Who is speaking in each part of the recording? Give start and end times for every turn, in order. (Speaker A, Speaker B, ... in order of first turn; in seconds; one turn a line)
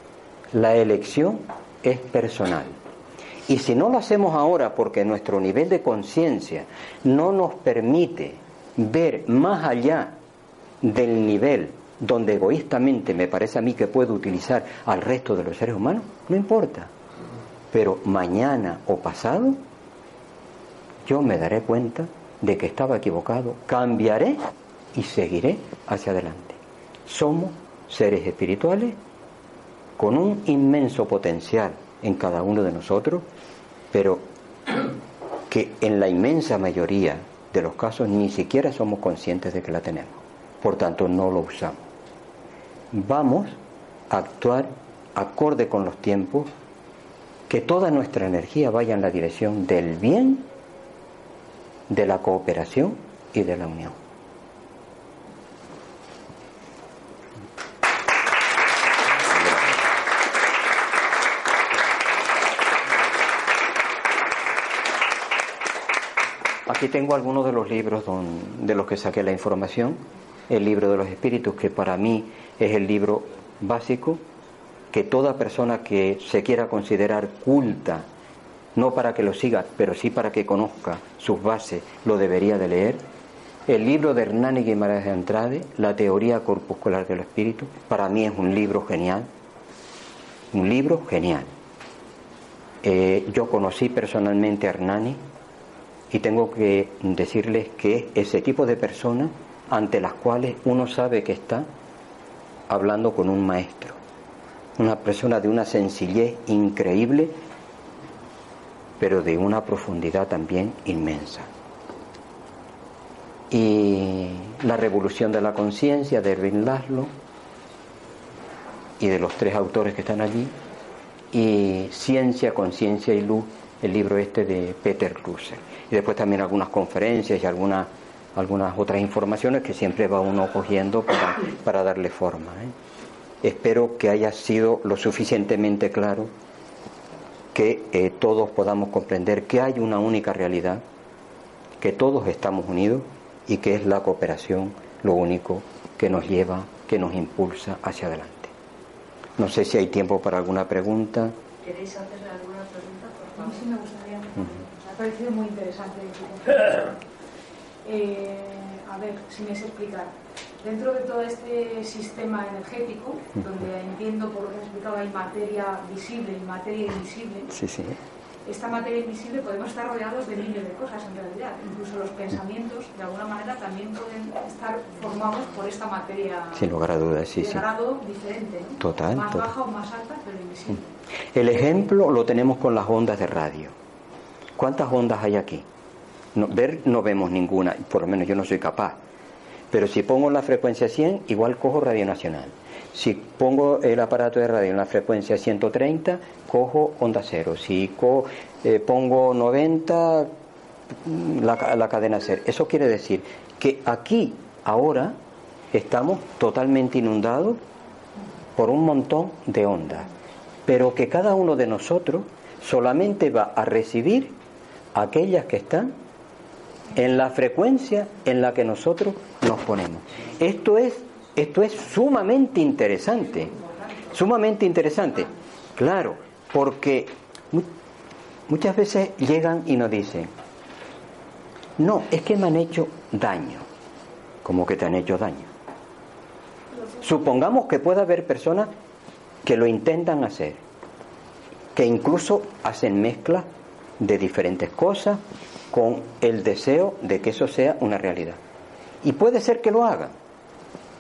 Speaker A: 0.5-2.8
Speaker A: 3.5-10.2
Speaker A: 10.8-16.9
Speaker A: 17.7-19.6
Speaker A: 21.1-24.4
Speaker A: 24.9-29.0
Speaker A: 30.0-33.3
Speaker A: 33.9-34.3
Speaker A: 35.5-41.9
Speaker A: 42.9-43.6
Speaker A: 44.1-46.5
Speaker A: 47.5-50.5
Speaker A: 51.9-54.0
Speaker A: 59.4-59.6
Speaker A: 66.7-74.2
Speaker A: 74.9-78.1
Speaker A: 78.8-83.0
Speaker A: 83.7-89.3
Speaker A: 90.5-91.5
Speaker A: 92.8-95.2
Speaker A: 96.1-101.7
Speaker A: 102.7-104.0
Speaker A: 104.8-107.4
Speaker A: 109.0-111.5
Speaker A: 113.5-117.1
Speaker A: 119.0-120.5
Speaker A: 121.3-132.7
Speaker A: 133.4-136.3
Speaker A: 137.5-140.8
Speaker A: 141.8-148.5
Speaker A: 149.4-151.4
Speaker B: 151.6-153.8
Speaker C: 153.4-157.0
Speaker C: 157.8-167.5
Speaker A: 167.5-168.0
Speaker C: 168.5-176.7
Speaker A: 176.6-177.6
Speaker C: 177.4-180.9
Speaker A: 178.8-179.5
Speaker A: 181.3-183.8
Speaker A: 184.6-185.7
Speaker A: 186.3-189.0
Speaker A: 189.7-200.3
Speaker A: 201.0-205.2
Speaker A: 205.7-207.6
Speaker A: 208.6-210.1
Speaker A: 210.7-214.3
Speaker A: 214.9-215.9
Speaker A: 216.9-223.6
Speaker B: 223.6-224.0
Speaker A: 224.1-227.7
Speaker A: 228.5-230.3
Speaker A: 231.8-233.7
Speaker A: 234.4-235.5
Speaker A: 237.0-238.7
Speaker A: 239.4-240.6
Speaker A: 241.8-243.5
Speaker A: 244.0-248.4
Speaker A: 249.0-250.1